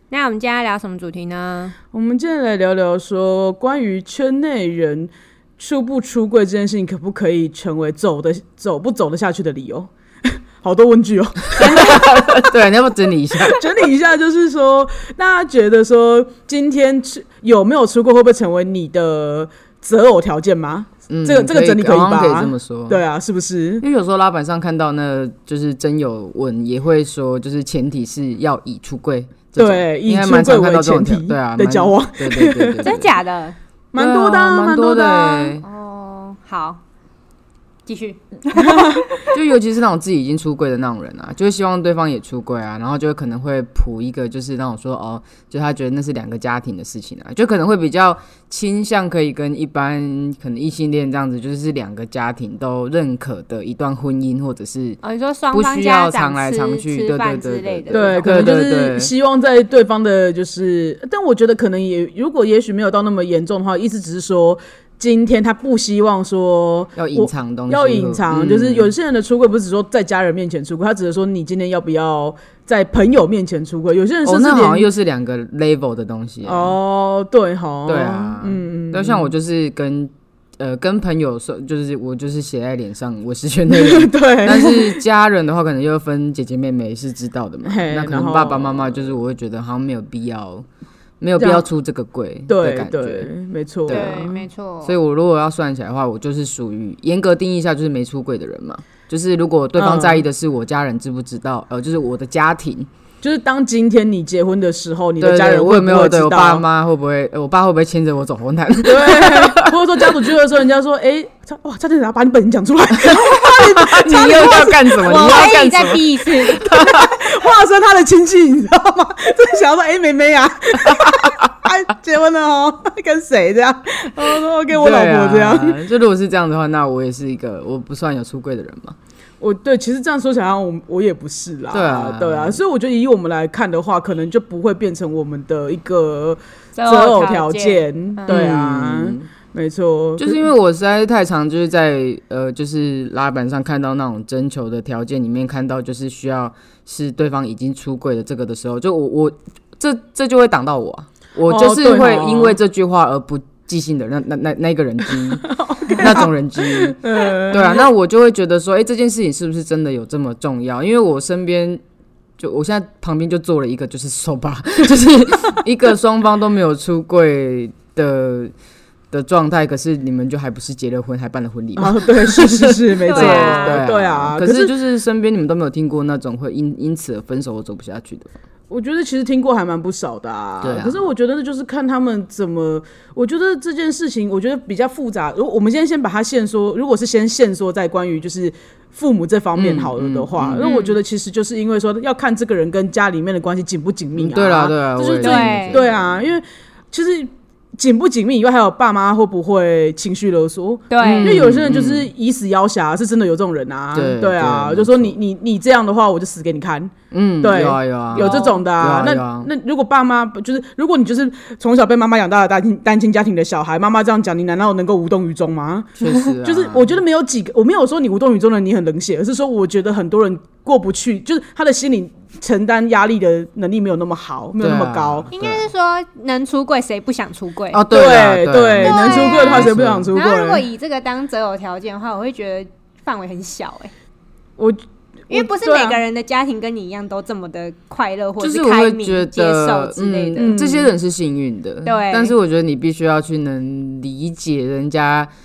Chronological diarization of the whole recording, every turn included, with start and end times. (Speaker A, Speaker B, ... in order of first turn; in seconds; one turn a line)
Speaker A: 0.1-1.8
Speaker B: 1.9-12.5
Speaker C: 11.6-13.6
Speaker B: 13.5-23.8
Speaker C: 21.1-23.0
Speaker C: 23.8-33.1
Speaker B: 29.6-32.9
Speaker A: 32.8-33.6
Speaker B: 33.9-35.6
Speaker C: 34.0-35.6
Speaker A: 35.6-36.8
Speaker A: 37.9-39.2
Speaker B: 38.5-39.0
Speaker C: 39.3-55.0
Speaker A: 55.0-58.4
Speaker C: 55.5-59.1
Speaker B: 57.9-74.9
Speaker C: 67.0-68.9
Speaker C: 74.2-76.8
Speaker B: 76.4-79.3
Speaker C: 77.9-90.7
Speaker B: 83.7-85.0
Speaker B: 87.7-89.0
Speaker C: 91.2-93.3
Speaker B: 91.4-91.7
Speaker B: 92.5-94.3
Speaker A: 93.9-94.9
Speaker C: 93.9-102.9
Speaker B: 99.8-100.2
Speaker B: 103.2-106.6
Speaker C: 105.2-110.3
Speaker B: 108.8-114.8
Speaker C: 113.1-117.1
Speaker A: 114.1-116.9
Speaker B: 116.6-125.8
Speaker C: 124.7-129.0
Speaker B: 129.4-140.5
Speaker C: 131.7-132.6
Speaker A: 136.8-138.4
Speaker C: 138.3-139.3
Speaker C: 140.2-161.8
Speaker B: 151.5-152.6
Speaker B: 155.6-157.9
Speaker C: 162.4-168.5
Speaker C: 169.1-178.3
Speaker B: 171.8-174.7
Speaker A: 173.1-173.8
Speaker B: 178.7-225.3
Speaker C: 180.6-181.1
Speaker C: 189.6-190.6
Speaker A: 190.6-191.0
Speaker C: 194.2-196.0
Speaker A: 195.2-195.8
Speaker A: 200.9-201.4
Speaker C: 201.0-202.1
Speaker C: 203.9-205.2
Speaker C: 207.1-209.5
Speaker A: 208.2-208.6
Speaker C: 216.0-217.0
Speaker C: 224.6-225.7
Speaker A: 225.3-227.8
Speaker C: 227.7-230.1
Speaker B: 227.9-230.7
Speaker A: 228.8-233.9
Speaker B: 234.6-236.0
Speaker A: 235.3-240.6
Speaker C: 238.4-245.3
Speaker B: 240.4-240.9
Speaker A: 241.8-242.3